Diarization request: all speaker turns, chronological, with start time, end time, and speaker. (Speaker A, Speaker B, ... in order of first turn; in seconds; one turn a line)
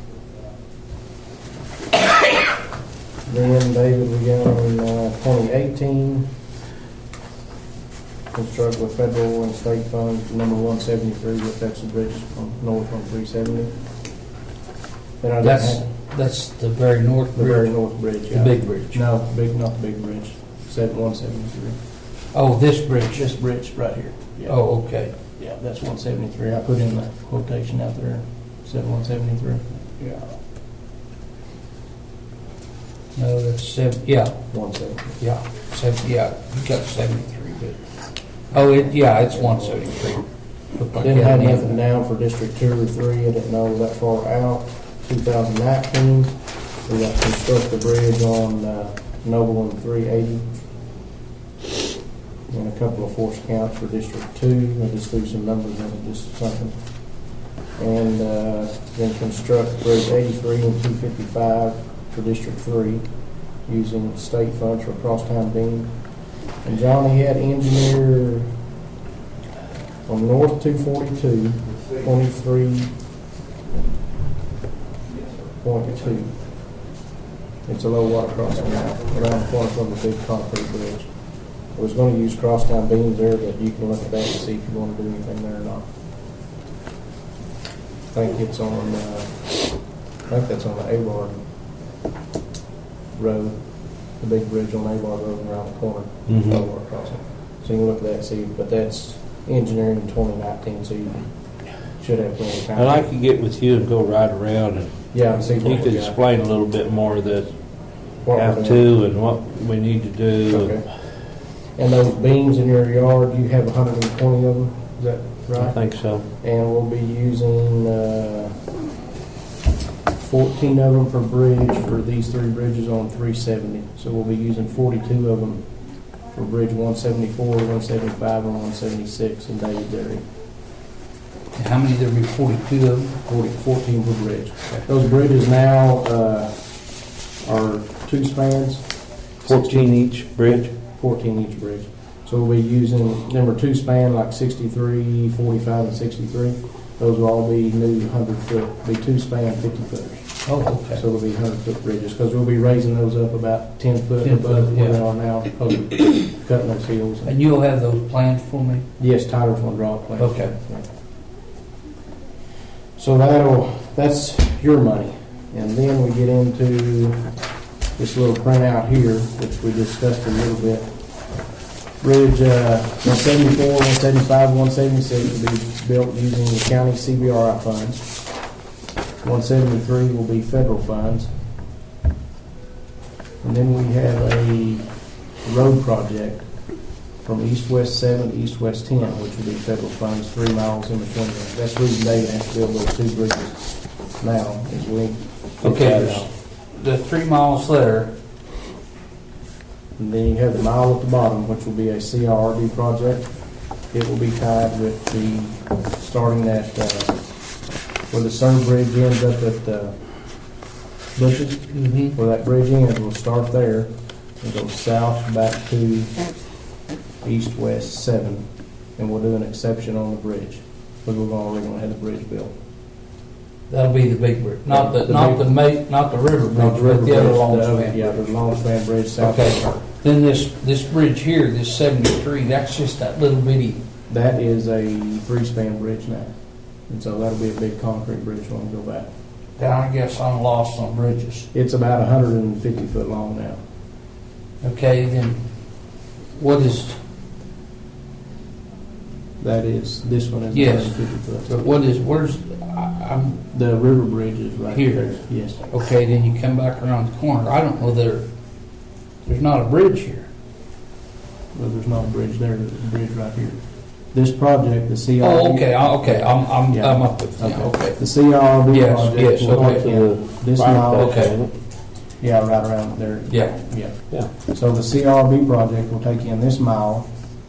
Speaker A: 3.2-6.2
Speaker A: 8.3-13.7
Speaker A: 15.2-15.8
Speaker B: 15.4-19.0
Speaker A: 17.3-21.8
Speaker B: 22.3-23.3
Speaker A: 23.1-24.6
Speaker B: 24.4-25.1
Speaker A: 25.1-30.2
Speaker B: 33.1-34.4
Speaker A: 34.5-35.2
Speaker B: 35.2-37.8
Speaker B: 38.5-41.7
Speaker A: 39.2-39.8
Speaker A: 40.9-50.5
Speaker A: 52.5-56.8
Speaker A: 57.8-63.0
Speaker A: 63.6-66.0
Speaker A: 66.6-68.5
Speaker A: 70.0-72.9
Speaker A: 75.6-76.3
Speaker A: 77.7-81.1
Speaker A: 81.7-85.9
Speaker A: 88.1-89.7
Speaker A: 90.3-91.3
Speaker A: 93.1-93.6
Speaker A: 94.2-101.3
Speaker C: 96.3-96.6
Speaker A: 101.9-103.0
Speaker C: 102.7-107.5
Speaker A: 105.1-106.2
Speaker A: 108.2-108.8
Speaker C: 108.3-110.7
Speaker A: 110.5-110.9
Speaker A: 111.7-118.6
Speaker C: 115.6-116.2
Speaker A: 120.2-125.6
Speaker A: 126.2-130.2
Speaker B: 131.5-133.2
Speaker A: 133.2-136.6
Speaker A: 137.4-138.9
Speaker C: 139.4-140.7
Speaker A: 139.4-139.9
Speaker A: 140.5-150.4
Speaker B: 150.4-151.0
Speaker A: 150.9-157.3
Speaker B: 154.2-155.0
Speaker B: 157.2-158.8
Speaker A: 159.0-160.8
Speaker B: 160.2-160.5
Speaker A: 162.9-167.2
Speaker A: 168.0-170.9
Speaker A: 172.0-178.1
Speaker A: 179.2-181.3
Speaker A: 183.4-184.9
Speaker A: 185.4-186.5
Speaker A: 187.2-196.2
Speaker C: 195.6-196.2
Speaker B: 195.6-198.1
Speaker A: 200.0-203.3
Speaker A: 203.9-207.2
Speaker A: 208.1-209.9
Speaker A: 211.2-216.2
Speaker B: 211.7-212.1
Speaker A: 217.2-222.5
Speaker B: 223.7-228.5
Speaker A: 224.7-225.5
Speaker A: 226.5-229.7
Speaker B: 229.2-233.8
Speaker A: 234.1-236.3
Speaker A: 236.8-239.1
Speaker B: 239.6-241.5
Speaker A: 241.5-243.6
Speaker B: 244.6-245.4
Speaker B: 246.4-247.0
Speaker A: 249.4-251.5
Speaker B: 250.5-253.4
Speaker A: 253.5-255.6
Speaker B: 254.7-258.3
Speaker B: 259.2-260.3
Speaker A: 261.5-263.6
Speaker A: 264.1-271.2
Speaker B: 265.2-268.0
Speaker B: 268.7-270.0
Speaker C: 269.4-271.5
Speaker B: 270.9-271.3
Speaker A: 272.2-277.1
Speaker B: 273.3-273.6